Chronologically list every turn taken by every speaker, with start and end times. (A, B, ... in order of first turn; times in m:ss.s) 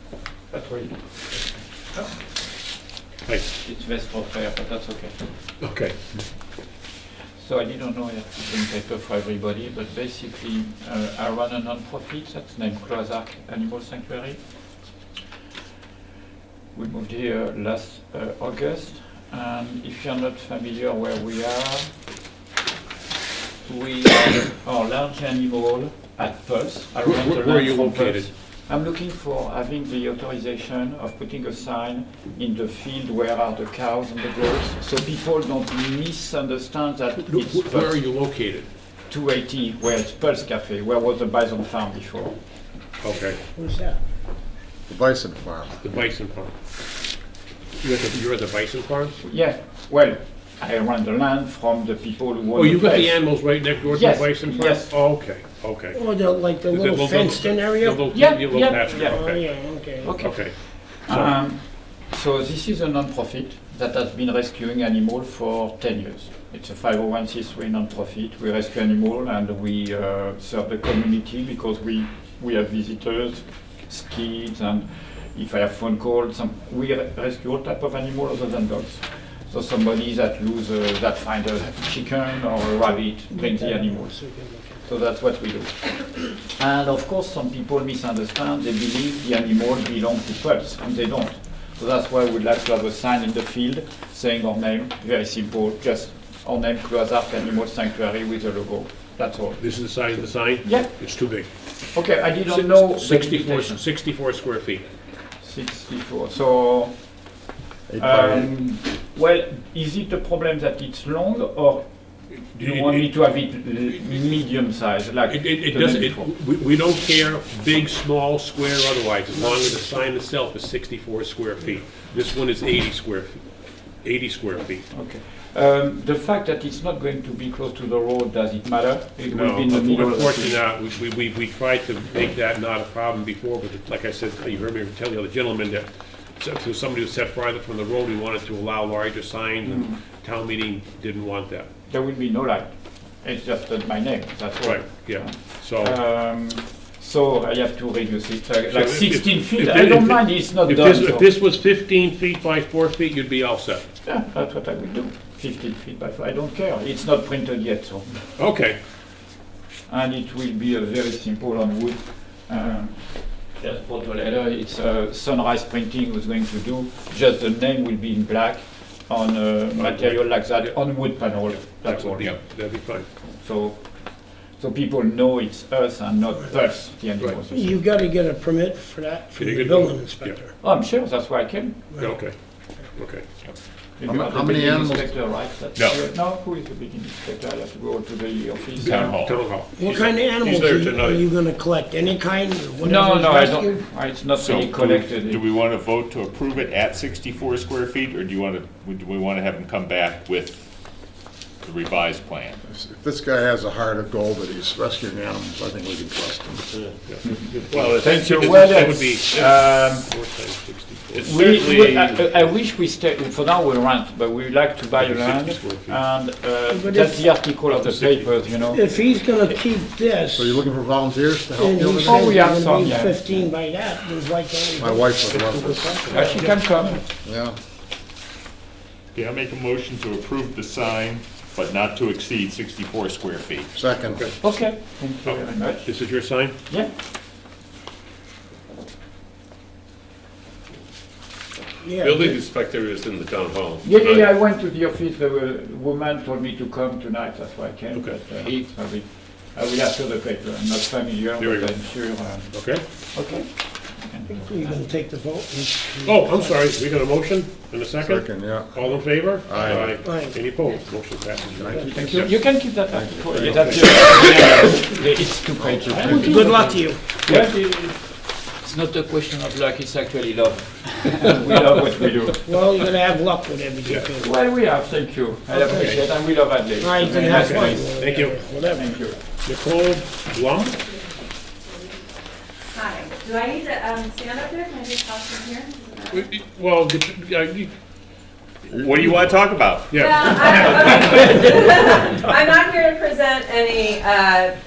0:00.5-0:02.1 A
0:03.6-0:05.2 A
0:05.6-0:06.2 B
0:07.4-0:14.4 A
0:16.7-0:21.9 A
0:23.6-0:38.0 A
0:27.0-0:28.3 B
0:37.2-0:38.7 B
0:39.1-0:42.4 A
0:43.0-0:43.4 B
0:43.5-0:44.0 C
0:44.9-0:45.8 D
0:45.8-0:46.5 B
0:47.8-0:49.2 B
0:49.2-0:53.2 A
0:52.5-0:56.0 B
0:53.8-0:55.0 A
0:55.9-0:58.1 C
0:56.7-1:01.3 B
0:58.1-0:59.2 A
0:58.9-1:00.2 C
1:00.0-1:24.2 A
1:23.1-1:24.8 C
1:24.8-1:39.6 A
1:39.6-1:41.5 B
1:40.6-1:41.0 A
1:41.9-1:43.8 A
1:42.5-1:44.8 B
1:45.4-1:46.9 A
1:47.9-1:48.5 D
1:48.0-1:56.3 A
1:52.3-1:53.1 B
1:55.3-2:04.9 B
2:04.9-2:10.6 A
2:09.3-2:21.7 B
2:19.6-2:20.0 A
2:21.9-2:31.3 A
2:24.6-2:26.0 B
2:28.7-2:33.8 B
2:34.0-2:38.2 A
2:38.4-2:38.8 B
2:39.9-2:52.3 A
2:49.8-2:53.0 B
2:53.4-2:57.8 A
2:57.4-3:00.6 C
2:59.4-3:00.4 B
3:00.6-3:01.9 A
3:02.0-3:02.4 B
3:02.9-3:03.2 B
3:04.0-3:09.2 A
3:04.0-3:05.1 D
3:05.8-3:06.0 E
3:08.8-3:11.2 B
3:08.9-3:09.4 E
3:09.8-3:13.9 C
3:12.8-3:15.4 A
3:14.3-3:20.8 E
3:21.6-3:22.6 E
3:22.7-3:26.7 D
3:27.0-3:31.4 B
3:27.2-3:30.2 A
3:31.1-3:32.2 F
3:31.2-3:38.8 A
3:35.0-3:36.0 B
3:36.7-3:37.4 C
3:37.6-3:38.6 B
3:38.7-3:40.6 C
3:40.3-3:42.4 D
3:41.6-3:45.1 C
3:42.0-3:43.2 A
3:44.8-3:46.2 D
3:45.3-3:47.0 B
3:46.1-3:47.0 A
3:47.2-3:47.6 D
3:49.1-3:53.7 E
3:53.7-3:54.2 D
3:54.1-3:54.4 B
3:54.4-3:56.0 A
3:55.2-3:56.5 B
4:01.8-4:02.2 C
4:02.0-4:04.2 F
4:03.8-4:14.8 A
4:11.4-4:12.0 B
4:12.5-4:12.8 B
4:14.3-4:16.6 C
4:16.0-4:22.2 B
4:18.0-4:20.0 D
4:20.0-4:20.4 C
4:21.6-4:24.1 D
4:21.9-4:32.5 A
4:23.4-4:24.1 B
4:25.6-4:26.6 D
4:26.0-4:27.0 C
4:32.4-4:34.4 C
4:34.2-4:39.2 A
4:35.6-4:36.0 B
4:35.7-4:35.9 C
4:36.8-4:39.0 C
4:37.2-4:38.4 B
4:39.4-4:40.8 B
4:42.7-4:46.2 G
4:46.1-4:47.7 B
4:48.7-4:50.8 E
4:49.9-4:50.5 B
4:50.0-4:54.5 G